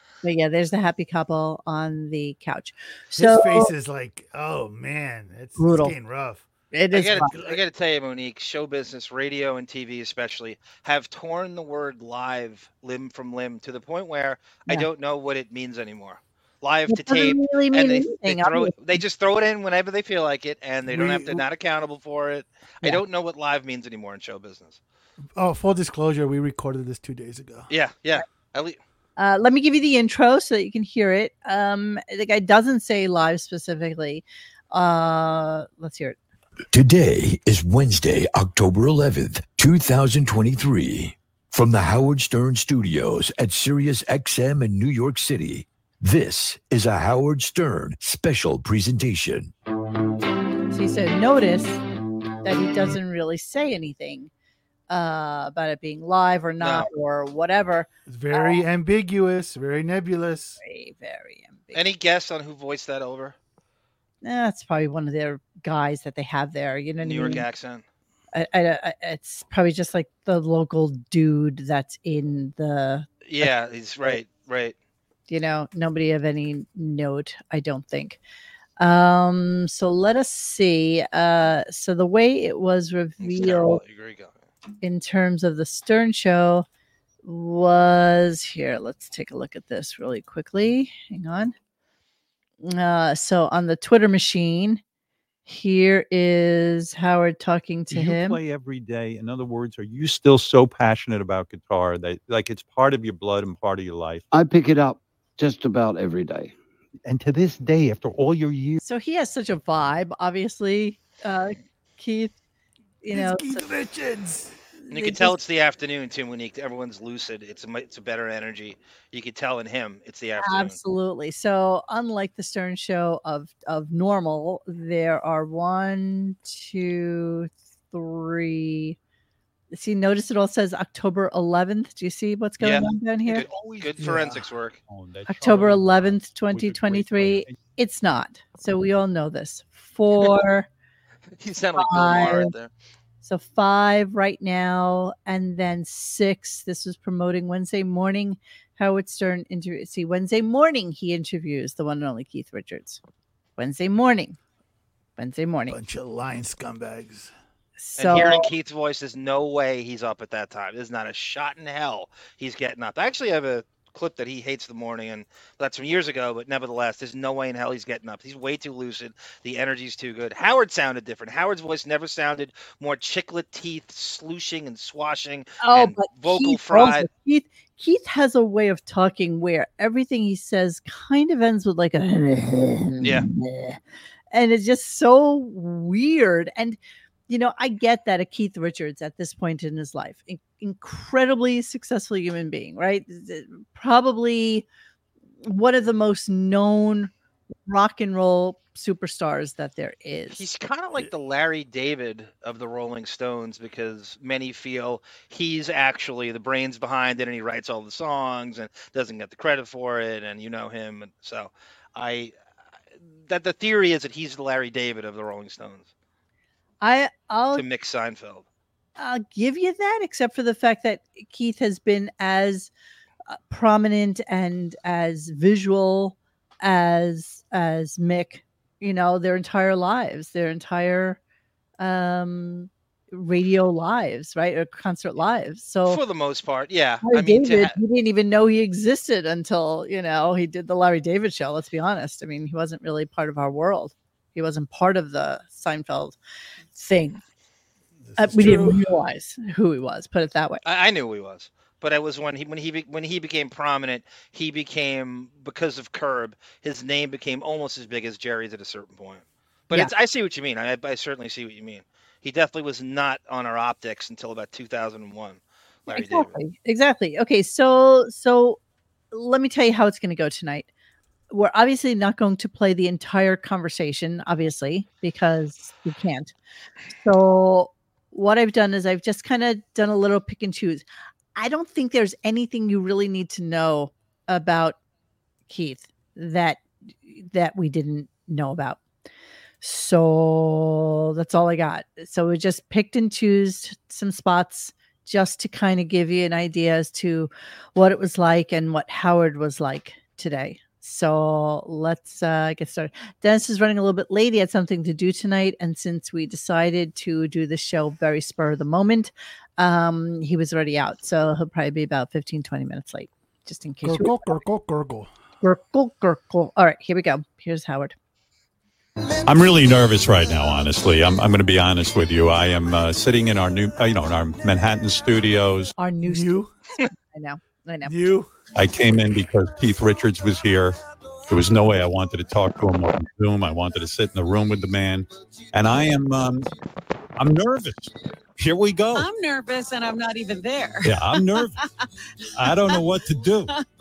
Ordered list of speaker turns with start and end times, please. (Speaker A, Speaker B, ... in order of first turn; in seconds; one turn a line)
Speaker A: 0.2-3.7
Speaker B: 3.1-6.5
Speaker A: 5.6-5.9
Speaker A: 6.7-7.3
Speaker C: 6.9-24.8
Speaker B: 7.3-7.6
Speaker A: 16.9-19.0
Speaker B: 20.9-21.4
Speaker B: 25.4-27.7
Speaker C: 27.7-28.8
Speaker A: 29.2-36.2
Speaker D: 36.7-49.5
Speaker A: 50.7-51.8
Speaker A: 52.4-54.3
Speaker A: 54.9-58.6
Speaker C: 56.6-56.9
Speaker B: 58.1-60.6
Speaker A: 60.6-61.8
Speaker C: 61.7-63.4
Speaker A: 64.2-67.4
Speaker C: 67.0-67.8
Speaker A: 68.3-73.5
Speaker C: 73.2-74.7
Speaker A: 75.3-78.2
Speaker A: 78.8-83.8
Speaker C: 83.2-84.3
Speaker A: 84.8-86.7
Speaker A: 87.2-91.5
Speaker A: 92.6-94.8
Speaker A: 95.5-98.4
Speaker E: 97.9-104.2
Speaker F: 104.3-106.5
Speaker E: 107.0-108.8
Speaker A: 108.8-112.3
Speaker A: 113.0-113.6
Speaker B: 113.1-114.5
Speaker A: 114.9-115.4
Speaker C: 114.9-120.8
Speaker A: 120.4-129.0
Speaker A: 129.7-133.4
Speaker C: 132.6-134.8
Speaker E: 133.6-134.1
Speaker B: 134.0-134.4
Speaker E: 134.9-137.6
Speaker A: 135.3-140.7
Speaker C: 141.4-142.7
Speaker A: 141.8-142.5
Speaker A: 143.2-153.0
Speaker A: 153.6-154.4
Speaker A: 155.2-155.8
Speaker B: 155.7-157.3
Speaker A: 157.8-158.5
Speaker C: 158.0-177.1
Speaker A: 175.6-183.8
Speaker A: 184.3-186.8
Speaker A: 187.3-194.7
Speaker A: 195.4-197.1
Speaker A: 197.7-200.5
Speaker C: 200.3-212.3
Speaker C: 213.3-215.9
Speaker A: 216.8-217.6
Speaker C: 217.5-218.4
Speaker A: 219.0-222.7
Speaker A: 223.3-231.2
Speaker A: 231.8-236.0
Speaker C: 235.8-237.8
Speaker A: 237.0-246.2
Speaker A: 246.7-247.2
Speaker B: 248.1-248.8
Speaker A: 248.2-250.6
Speaker C: 250.6-266.3
Speaker A: 265.9-268.6
Speaker A: 269.1-270.7
Speaker A: 271.3-276.3
Speaker A: 277.0-280.8
Speaker A: 281.4-284.8
Speaker A: 285.5-288.8
Speaker A: 289.6-314.4
Speaker B: 313.8-315.1
Speaker A: 315.4-317.9
Speaker E: 319.2-325.7
Speaker A: 325.8-327.9
Speaker B: 326.0-326.5
Speaker B: 327.8-328.3
Speaker E: 328.5-330.8
Speaker E: 331.3-336.5
Speaker E: 337.2-339.1
Speaker G: 338.9-341.4
Speaker E: 340.8-341.6
Speaker E: 342.4-343.5